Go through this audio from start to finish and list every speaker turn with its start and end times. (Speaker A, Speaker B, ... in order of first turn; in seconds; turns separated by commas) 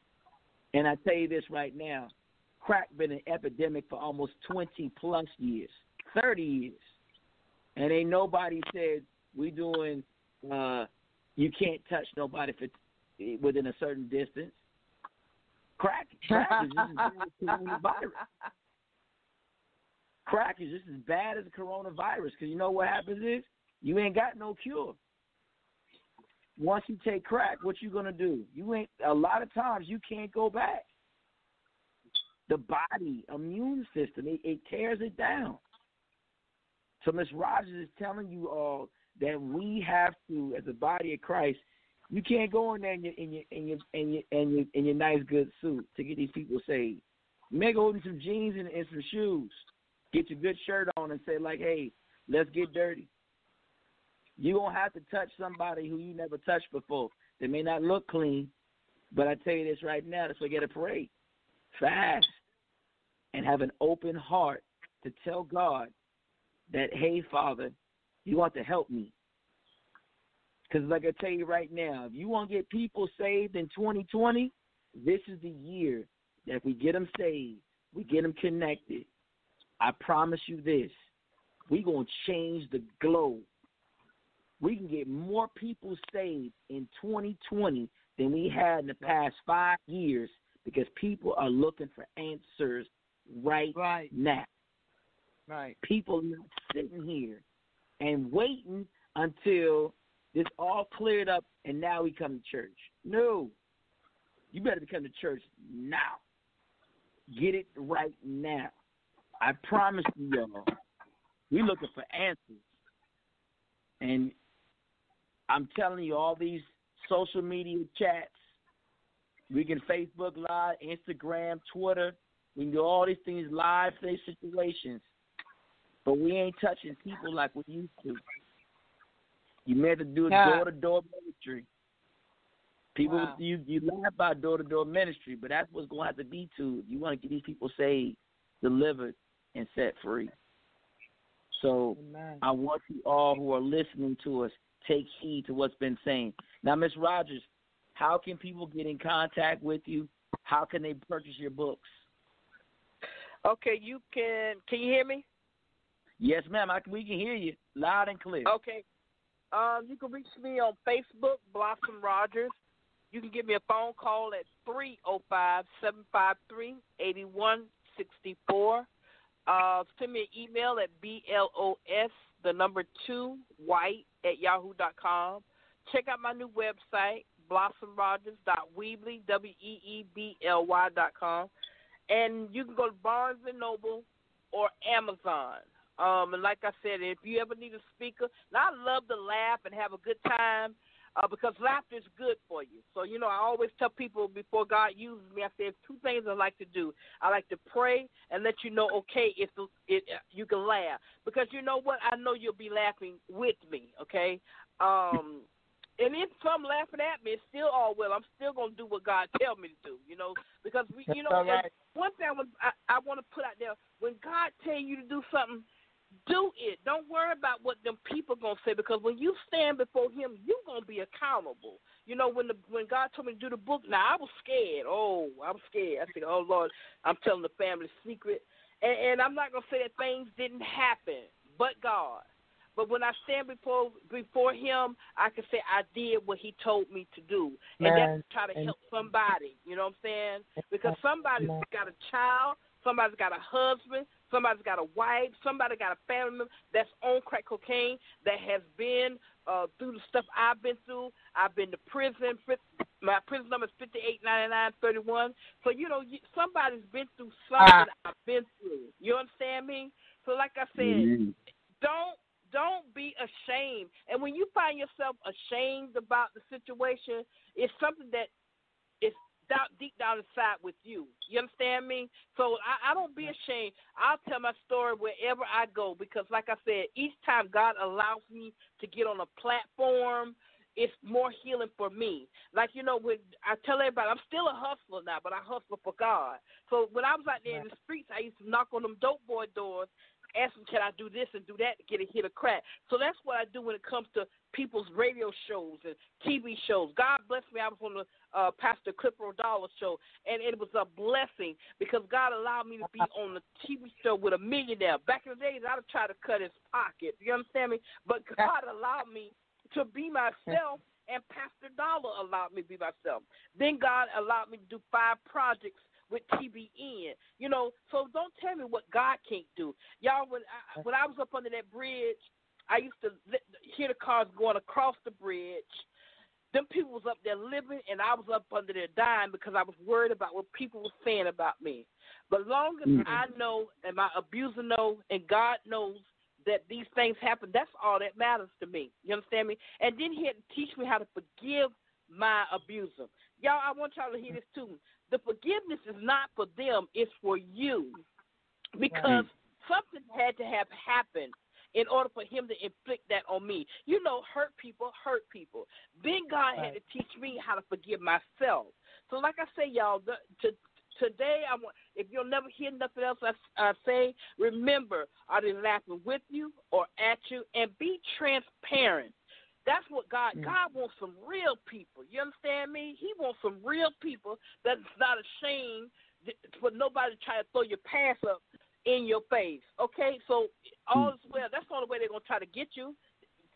Speaker A: 0.7-6.9, Speaker A: 7.8-14.6, Speaker A: 15.8-18.1, Speaker B: 16.3-17.0, Speaker A: 20.2-25.0, Speaker A: 26.6-30.9, Speaker A: 32.5-35.6, Speaker A: 37.0-53.1, Speaker A: 54.4-58.5, Speaker A: 59.1-61.1, Speaker A: 61.7-62.4, Speaker A: 63.3-65.9, Speaker A: 66.7-69.1, Speaker A: 70.7-79.1, Speaker A: 79.8-80.9, Speaker A: 81.7-83.5, Speaker A: 84.6-94.5, Speaker B: 93.7-94.1, Speaker B: 95.5-95.8, Speaker A: 95.8-97.4, Speaker A: 98.0-103.5, Speaker A: 104.5-106.2, Speaker A: 107.3-108.7, Speaker A: 109.4-110.7, Speaker A: 111.5-112.8, Speaker A: 114.0-114.3, Speaker A: 115.5-118.4, Speaker A: 119.5-125.0, Speaker A: 126.0-128.2, Speaker A: 129.7-131.7, Speaker B: 130.3-130.7, Speaker A: 132.9-140.3, Speaker B: 133.0-133.4, Speaker A: 141.5-151.9, Speaker B: 141.9-142.4, Speaker C: 153.4-155.2, Speaker A: 156.2-158.5, Speaker C: 158.4-158.8, Speaker C: 159.5-162.5, Speaker C: 163.1-168.9, Speaker C: 169.5-181.5, Speaker C: 182.1-205.5, Speaker C: 206.0-215.7, Speaker B: 211.1-211.7, Speaker C: 216.3-232.2, Speaker C: 232.8-261.1, Speaker B: 237.8-238.7, Speaker B: 240.6-241.7, Speaker B: 257.6-257.9, Speaker A: 260.8-261.3, Speaker C: 261.8-268.3, Speaker C: 269.0-325.9, Speaker C: 326.5-348.0, Speaker C: 348.8-369.1, Speaker C: 369.6-382.9